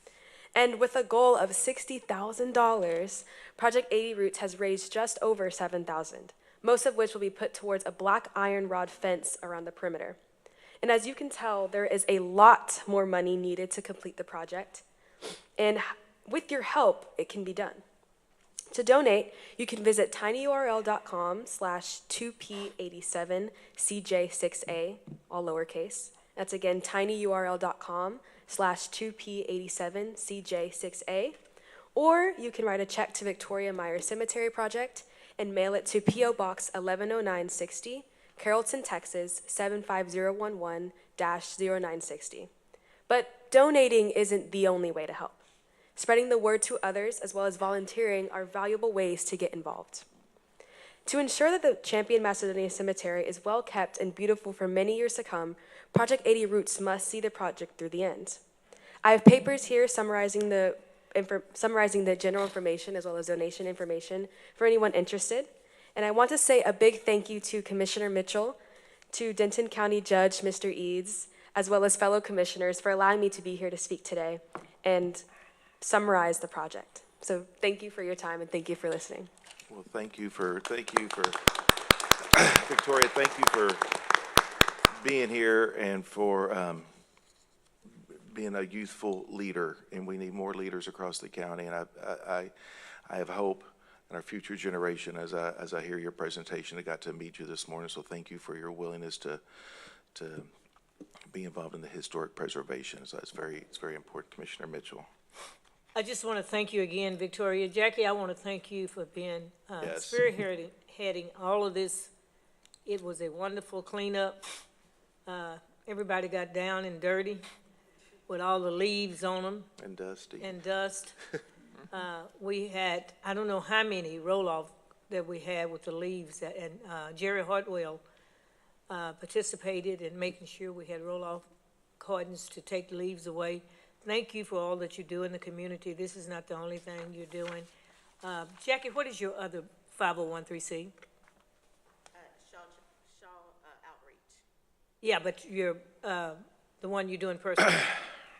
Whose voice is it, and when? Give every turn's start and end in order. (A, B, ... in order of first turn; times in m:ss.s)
0:00.5-0:10.2 A
0:10.8-0:14.8 A
0:15.6-0:17.8 A
0:18.7-0:31.4 A
0:31.9-0:42.5 A
0:43.1-0:45.4 A
0:46.0-0:50.0 A
0:51.0-0:58.4 A
0:59.0-1:08.6 A
1:09.1-1:15.2 A
1:15.8-1:19.3 A
1:19.7-1:21.5 B
1:22.3-1:23.8 B
1:25.0-1:26.9 B
1:28.1-1:32.5 B
1:33.1-1:39.4 B
1:40.1-1:40.5 B
1:41.3-1:45.1 B
1:45.9-1:52.1 C
1:49.8-1:50.2 B
1:52.8-1:54.4 C
1:55.2-1:57.4 C
1:58.3-1:59.7 C
1:59.8-2:00.5 B
2:00.4-2:01.2 C
2:01.9-2:08.0 C
2:08.9-2:11.4 C
2:12.0-2:17.7 C
2:18.2-2:20.9 C
2:22.1-2:24.4 D
2:25.0-2:28.0 C